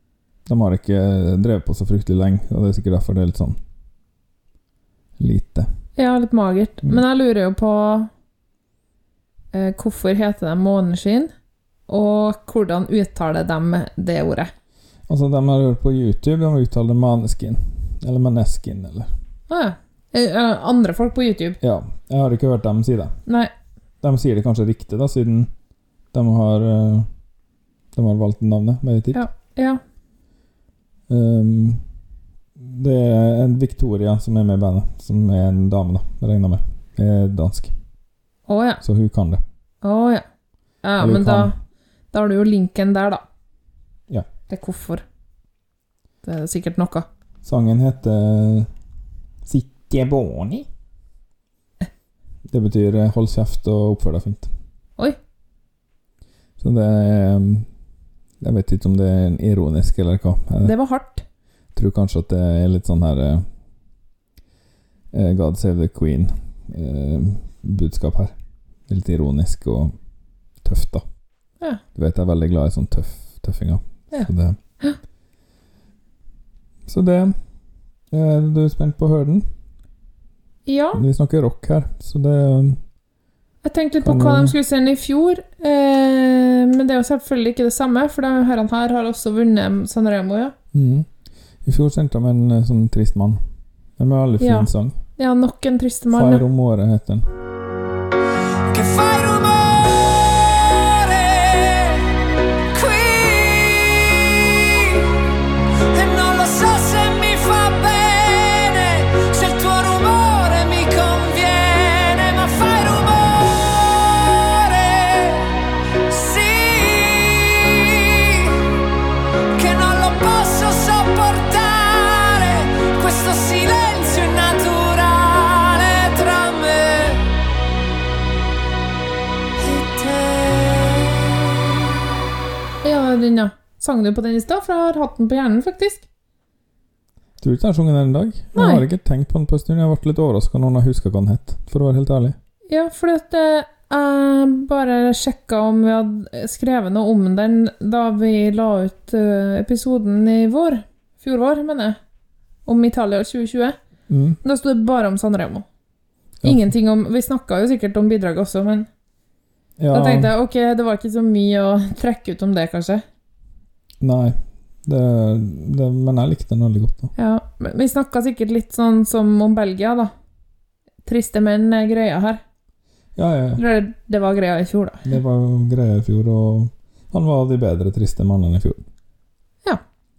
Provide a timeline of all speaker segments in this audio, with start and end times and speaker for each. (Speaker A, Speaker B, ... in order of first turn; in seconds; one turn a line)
Speaker A: 0.5-3.6
Speaker A: 5.2-5.7
Speaker B: 6.0-8.1
Speaker B: 9.5-11.3
Speaker B: 11.9-14.5
Speaker A: 15.1-19.1
Speaker B: 19.5-21.6
Speaker A: 21.6-23.1
Speaker B: 23.3-23.5
Speaker A: 24.0-25.5
Speaker A: 26.1-27.1
Speaker A: 27.9-29.2
Speaker B: 29.1-29.8
Speaker A: 31.1-31.8
Speaker A: 32.6-37.7
Speaker B: 38.5-38.8
Speaker A: 38.8-39.4
Speaker B: 39.8-40.2
Speaker B: 40.8-41.5
Speaker A: 41.0-41.5
Speaker B: 42.1-43.2
Speaker B: 44.5-45.0
Speaker B: 46.2-47.0
Speaker A: 47.4-48.7
Speaker A: 49.5-50.7
Speaker A: 52.5-54.5
Speaker A: 56.6-57.7
Speaker A: 58.4-60.7
Speaker B: 60.6-61.2
Speaker A: 61.7-63.4
Speaker A: 65.1-68.3
Speaker A: 68.9-69.9
Speaker A: 70.6-71.0
Speaker A: 71.9-74.6
Speaker A: 76.9-77.3
Speaker A: 78.1-79.4
Speaker B: 80.7-81.0
Speaker A: 80.9-82.8
Speaker B: 83.6-90.5
Speaker A: 84.0-84.5
Speaker A: 90.7-91.1
Speaker A: 91.6-93.4
Speaker A: 94.0-95.0
Speaker B: 94.4-96.4
Speaker A: 96.1-97.3
Speaker C: 98.7-105.2
Speaker C: 105.9-118.7
Speaker C: 119.5-127.2
Speaker C: 129.6-131.5
Speaker B: 132.8-136.1
Speaker A: 137.4-142.4
Speaker B: 138.5-138.8
Speaker B: 142.7-152.0
Speaker B: 152.7-153.8
Speaker A: 154.1-154.4
Speaker B: 154.4-155.7
Speaker A: 156.4-156.7
Speaker B: 156.4-158.9
Speaker A: 159.8-160.3
Speaker B: 159.9-163.0
Speaker A: 164.0-167.1
Speaker B: 167.2-170.1
Speaker B: 171.0-172.4
Speaker A: 173.2-173.6
Speaker B: 173.6-175.1
Speaker A: 175.0-178.8